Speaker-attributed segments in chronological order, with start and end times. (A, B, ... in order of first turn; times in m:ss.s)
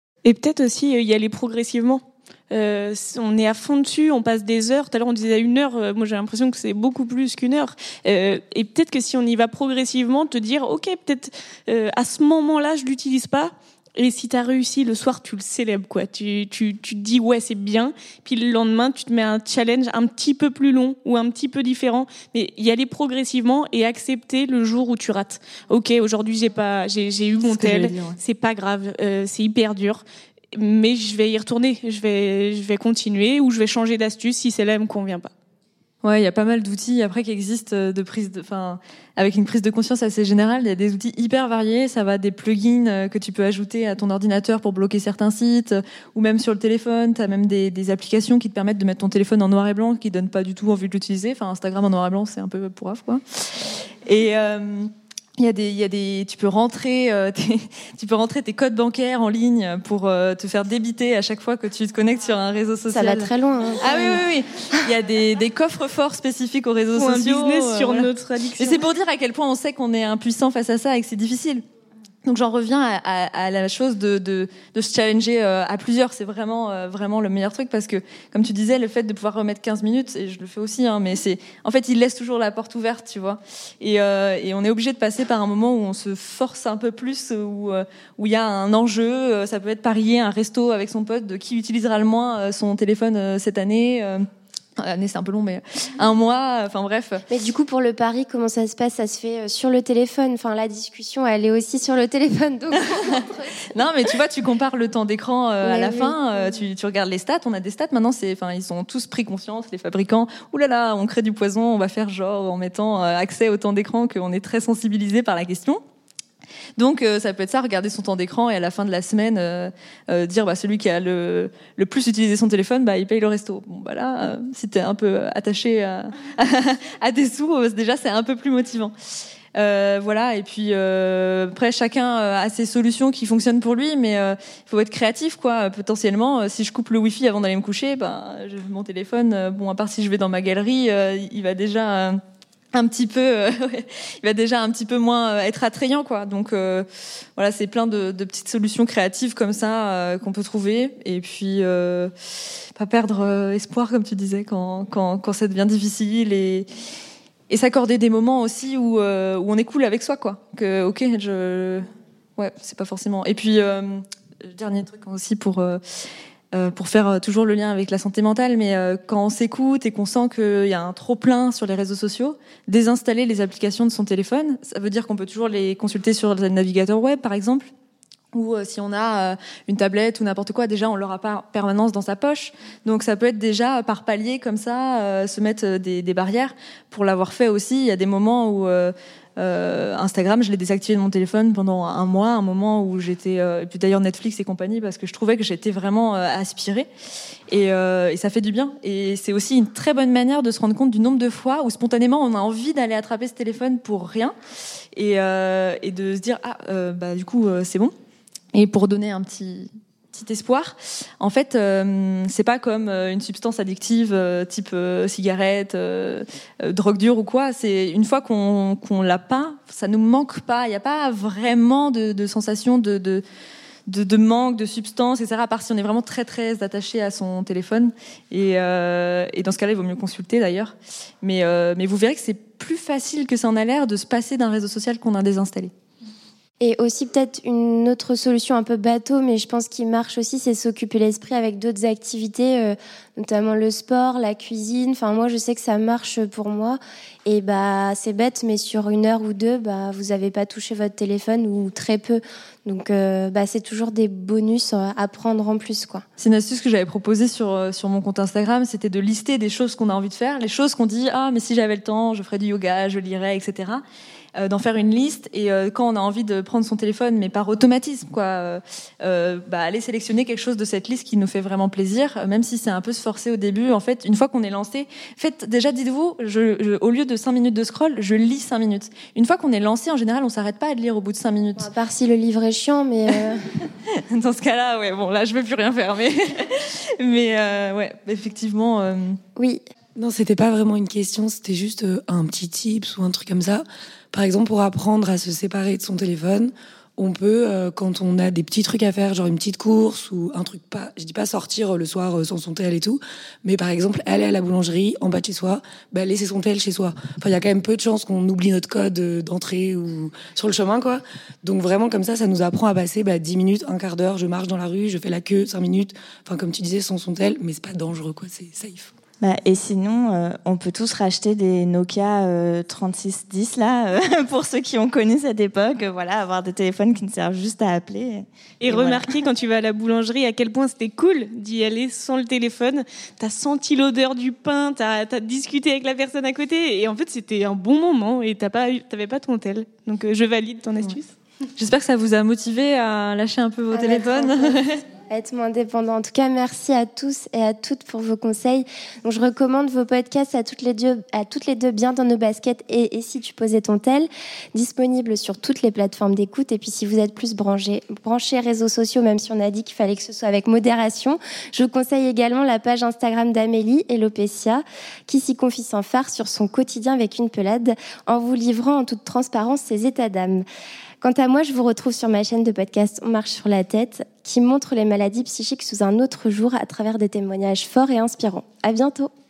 0:00.2-0:35.3 A
0:27.5-0:28.2 B
0:36.0-1:11.6 B
1:02.9-1:04.2 C
1:07.0-1:08.8 A
1:12.2-1:34.2 B
1:34.8-1:37.2 B
1:37.3-1:43.6 C
1:43.0-1:55.8 B
1:45.6-1:46.7 C
1:56.8-2:08.9 B
2:09.6-2:22.2 B
2:22.7-2:32.1 B
2:32.8-2:36.7 B
2:37.5-2:41.9 B
2:42.4-2:45.8 B
2:46.5-2:57.7 B
2:58.3-3:16.9 B
3:17.5-3:24.4 B
3:25.0-3:27.9 B
3:28.5-3:43.2 B
3:43.9-3:55.7 B
3:56.6-4:16.0 C
4:16.2-4:23.8 B
4:24.4-4:41.7 B
4:41.6-4:43.4 C
4:44.0-4:49.2 B
4:49.4-4:49.6 C
4:50.0-5:18.9 D
5:19.2-5:29.1 E
5:28.6-5:41.1 A
5:41.6-5:44.8 B
5:43.7-5:44.6 C
5:45.1-6:10.4 C
6:11.0-6:19.1 C